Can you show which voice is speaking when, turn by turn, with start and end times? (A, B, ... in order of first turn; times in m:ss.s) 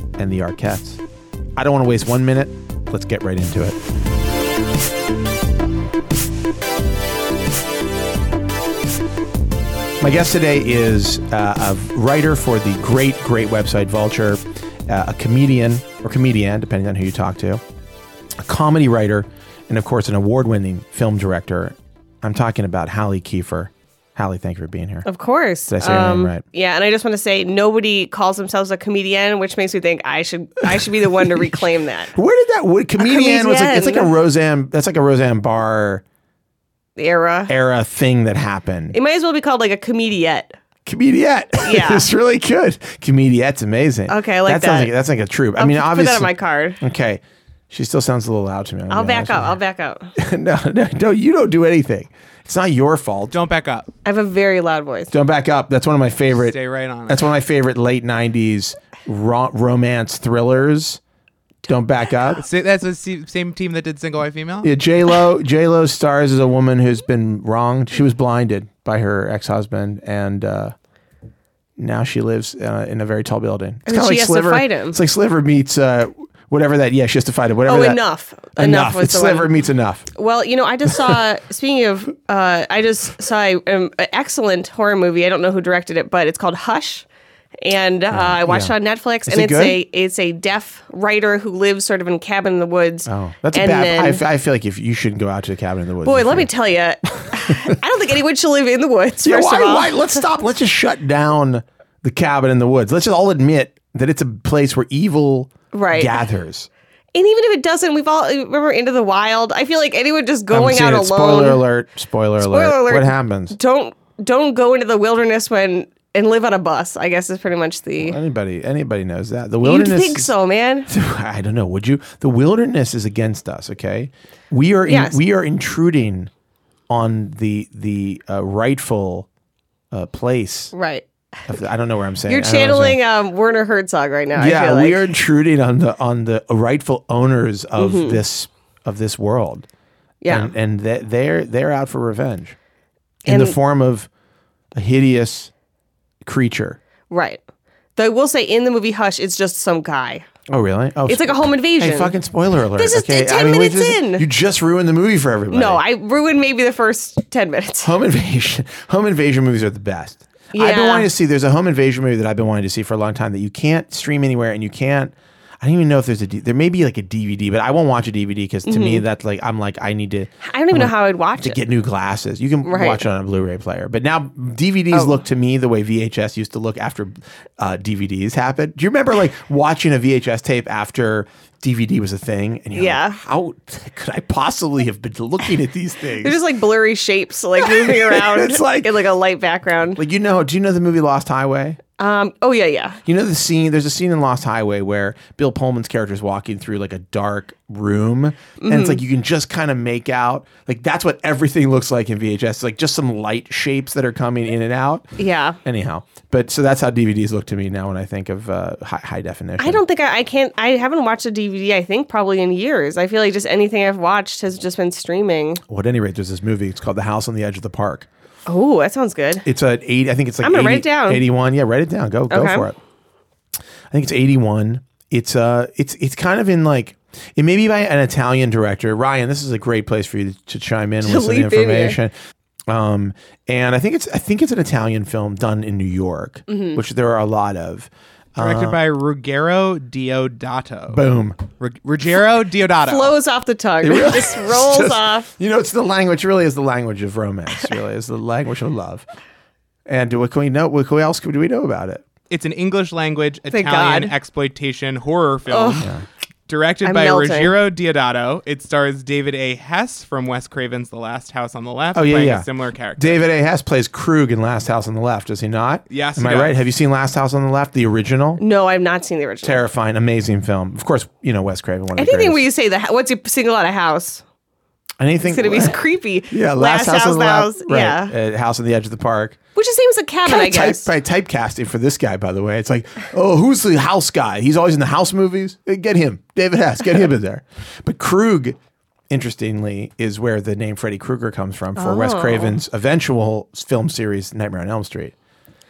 0:00.2-0:01.0 A
0:01.6-0:03.8 A
0:10.0-0:17.6 A
0:18.4-0:25.0 A
0:25.0-0:32.1 B
0:25.7-0:26.4 A
0:30.7-0:36.0 A
0:33.0-0:34.1 B
0:37.0-0:37.5 B
0:37.5-0:39.0 A
0:38.9-0:40.6 B
0:40.8-0:49.6 A
0:41.6-0:42.1 B
0:44.1-0:44.9 B
0:45.6-0:46.8 B
0:48.9-0:50.1 B
0:50.1-0:53.4 A
0:53.3-0:53.9 C
0:54.0-0:55.1 B
0:55.1-1:01.0 A
0:56.4-0:57.3 C
1:01.7-1:02.5 A
1:02.4-1:04.7 C
1:04.6-1:10.7 A
1:11.8-1:18.0 A
1:13.8-1:15.0 B
1:17.6-1:19.5 B
1:18.5-1:20.1 A
1:20.1-1:27.0 B
1:27.6-1:34.2 B
1:28.1-1:28.7 A
1:29.2-1:29.8 A
1:33.1-1:36.5 A
1:36.0-1:40.2 B
1:37.2-1:37.8 A
1:39.2-1:46.7 A
1:45.7-1:46.2 B
1:47.1-1:51.6 B
1:50.5-1:53.6 A
1:52.4-1:58.2 B
1:58.0-2:00.3 A
1:59.6-2:00.9 B
2:00.9-2:06.3 A
2:04.8-2:05.2 B
2:06.9-2:09.3 A
2:09.9-2:10.7 A
2:10.7-2:11.0 B
2:11.5-2:13.0 A
2:12.3-2:15.0 B
2:14.4-2:19.6 A
2:17.8-2:18.2 B
2:20.2-2:20.5 B
2:20.3-2:22.6 A
2:23.2-2:23.6 B
2:23.3-2:24.1 A
2:24.7-2:25.5 A
2:26.2-2:26.8 A
2:27.1-2:27.4 B
2:28.0-2:30.2 B
2:30.5-2:35.8 A
2:31.1-2:32.2 B
2:32.8-2:34.2 B
2:35.5-2:37.9 B
2:37.8-3:06.4 A
2:40.5-2:41.1 B
2:48.6-2:49.0 B
2:50.4-2:51.6 B
2:52.6-2:53.0 B
2:54.9-2:55.2 B
3:02.7-3:03.2 B
3:06.2-3:10.0 B
3:07.6-3:08.9 A
3:10.0-3:11.8 A
3:12.0-3:13.0 B
3:13.0-3:25.1 A
3:18.6-3:19.0 B
3:25.2-3:25.6 B
3:25.6-3:29.8 A
3:29.6-3:35.6 B
3:35.7-3:38.1 A
3:38.5-3:39.4 B
3:39.4-3:42.8 A
3:40.4-3:41.2 B
3:42.3-3:42.7 B
3:43.9-3:52.1 A
3:51.0-3:52.0 B
3:52.7-3:58.8 A
3:56.5-3:56.8 B
3:58.4-4:01.0 C
4:00.9-4:01.4 A
4:01.6-4:03.2 C
4:02.8-4:05.3 B
4:03.8-4:09.0 A
4:09.9-4:12.0 A
4:12.3-4:15.9 C
4:13.5-4:14.1 B
4:15.5-4:15.9 B
4:15.8-4:16.0 A
4:16.5-4:23.2 C
4:16.8-4:17.5 B
4:21.9-4:28.4 A
4:25.9-4:26.6 C
4:28.4-4:29.6 B
4:29.4-4:32.4 A
4:32.0-4:34.2 B
4:35.0-4:35.8 A
4:35.2-4:38.1 B
4:36.3-4:39.4 A
4:39.5-4:40.9 B
4:40.2-4:48.6 A
4:49.1-4:55.1 A
4:51.8-4:52.6 B